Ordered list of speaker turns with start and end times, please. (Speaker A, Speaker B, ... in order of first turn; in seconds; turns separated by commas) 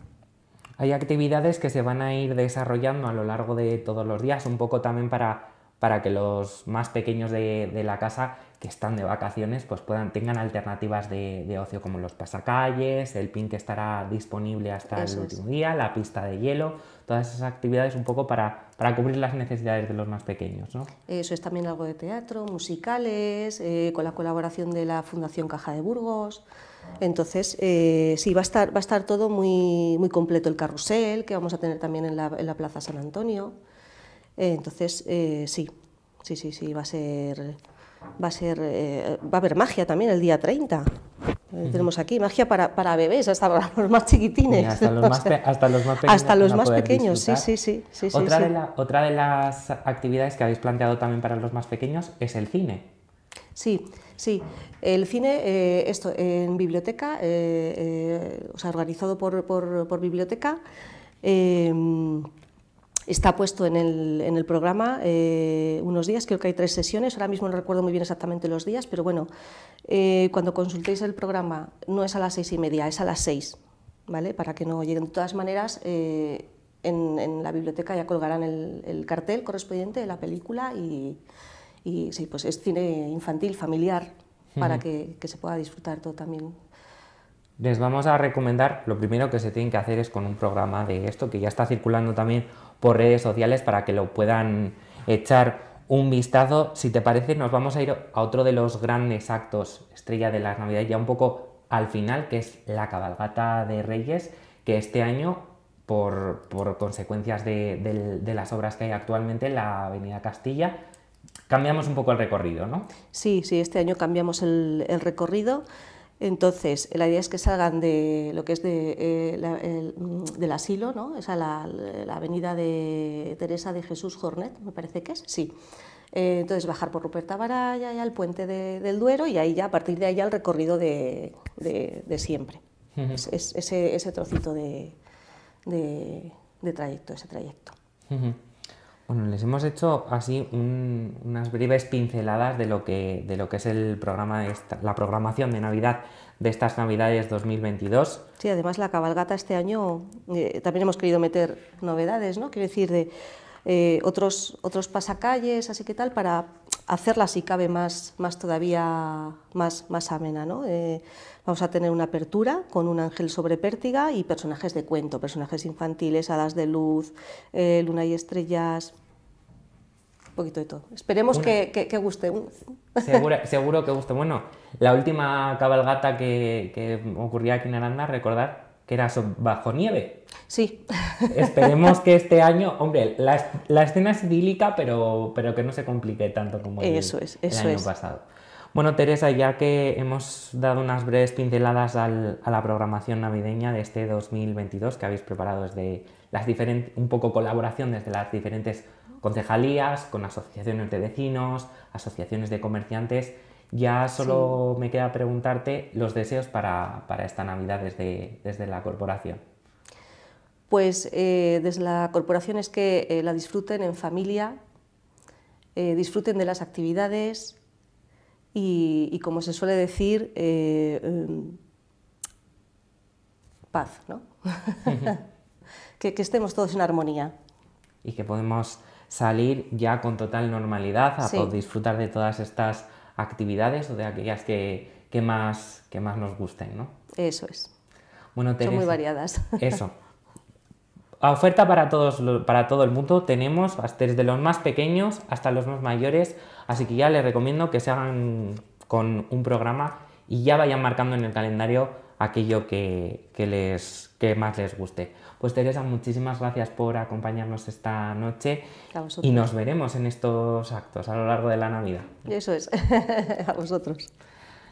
Speaker A: 0.8-20.9, Speaker B: 14.9-15.4, Speaker B: 21.1-26.4, Speaker B: 27.0-33.5, Speaker B: 34.4-35.7, Speaker B: 36.2-37.6, Speaker B: 38.2-40.9, Speaker B: 41.5-45.4, Speaker A: 44.5-47.5, Speaker B: 46.0-48.5, Speaker A: 48.1-52.9, Speaker B: 53.6-60.6, Speaker B: 61.2-62.3, Speaker B: 63.1-69.3, Speaker B: 69.9-81.2, Speaker B: 81.8-86.6, Speaker A: 84.6-84.8, Speaker A: 87.6-110.8, Speaker A: 111.5-112.9, Speaker B: 113.1-115.6, Speaker B: 116.2-125.5, Speaker B: 126.1-132.6, Speaker A: 133.0-133.2, Speaker B: 133.1-134.9, Speaker B: 135.7-137.7, Speaker A: 138.1-138.4, Speaker A: 139.1-148.2, Speaker B: 148.4-153.1, Speaker B: 153.7-168.9, Speaker B: 170.4-173.3, Speaker A: 173.0-180.2, Speaker B: 180.5-181.7, Speaker A: 181.3-209.4, Speaker B: 186.8-187.9, Speaker B: 204.2-204.6, Speaker B: 210.7-214.6, Speaker B: 215.8-217.6, Speaker B: 218.5-221.6, Speaker B: 223.7-225.2, Speaker B: 226.0-227.3, Speaker A: 228.0-236.9, Speaker B: 231.2-231.5, Speaker B: 237.2-237.7, Speaker A: 238.3-239.0, Speaker B: 238.6-239.8, Speaker A: 239.6-239.9, Speaker A: 241.2-258.7, Speaker B: 258.9-259.5, Speaker A: 259.2-262.2, Speaker B: 262.3-264.1